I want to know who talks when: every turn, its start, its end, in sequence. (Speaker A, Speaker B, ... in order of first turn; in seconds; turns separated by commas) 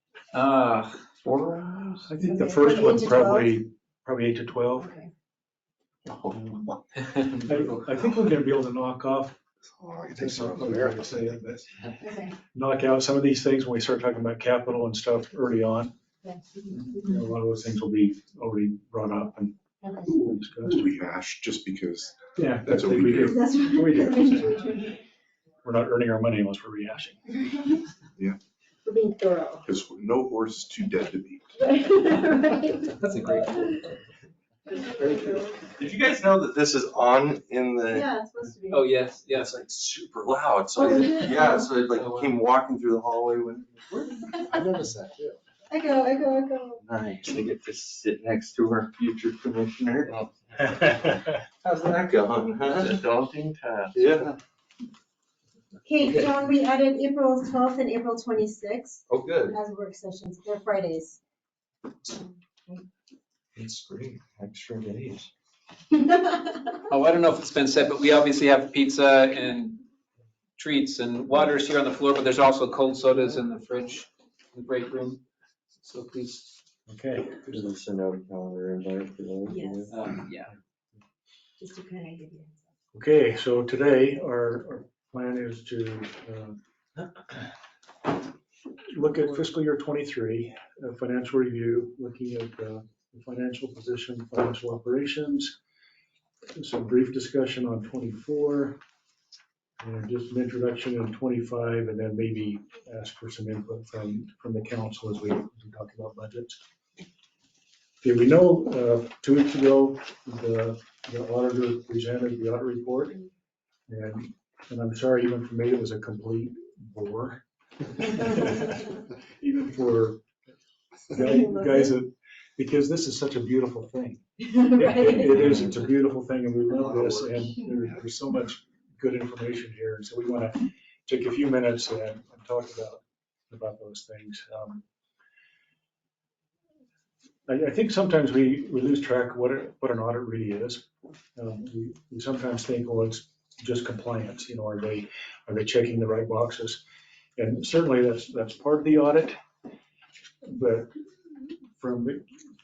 Speaker A: 0.3-2.1, Speaker B: 2.0-4.9, Speaker C: 2.2-3.6, Speaker C: 4.8-5.1, Speaker A: 7.1-7.6, Speaker B: 7.4-9.3, Speaker D: 9.8-10.6, Speaker E: 10.1-11.3, Speaker B: 10.2-11.6, Speaker C: 12.0-12.3, Speaker B: 12.5-15.9, Speaker C: 16.2-17.0, Speaker B: 16.9-20.8, Speaker C: 19.8-20.1, Speaker D: 20.6-23.4, Speaker B: 22.4-24.8, Speaker C: 23.3-24.6, Speaker B: 25.6-27.2, Speaker C: 28.8-29.6, Speaker D: 29.6-31.5, Speaker C: 31.6-32.9, Speaker A: 33.0-33.7, Speaker C: 34.8-35.4, Speaker F: 35.8-38.0, Speaker C: 37.9-38.9, Speaker A: 38.7-39.6, Speaker F: 39.3-44.1, Speaker C: 40.7-41.7, Speaker A: 42.0-42.3, Speaker E: 44.5-45.4, Speaker C: 45.7-46.8, Speaker F: 46.9-54.4, Speaker C: 55.8-61.2, Speaker F: 59.1-59.6, Speaker F: 63.5-65.3, Speaker C: 66.1-66.4, Speaker A: 66.9-69.8, Speaker A: 70.6-75.2, Speaker A: 75.8-76.5, Speaker B: 76.9-77.7, Speaker F: 77.5-79.9, Speaker C: 79.5-79.9, Speaker A: 79.9-80.5, Speaker C: 81.6-82.6, Speaker B: 82.9-86.6, Speaker B: 88.9-95.5, Speaker B: 96.5-98.8, Speaker B: 99.8-106.6, Speaker B: 108.0-113.2, Speaker B: 113.9-117.4, Speaker B: 117.9-120.2, Speaker B: 121.1-134.8, Speaker C: 121.2-121.9, Speaker C: 124.4-125.7, Speaker B: 137.5-146.8, Speaker B: 147.4-149.3, Speaker B: 150.4-150.9, Speaker B: 151.8-152.2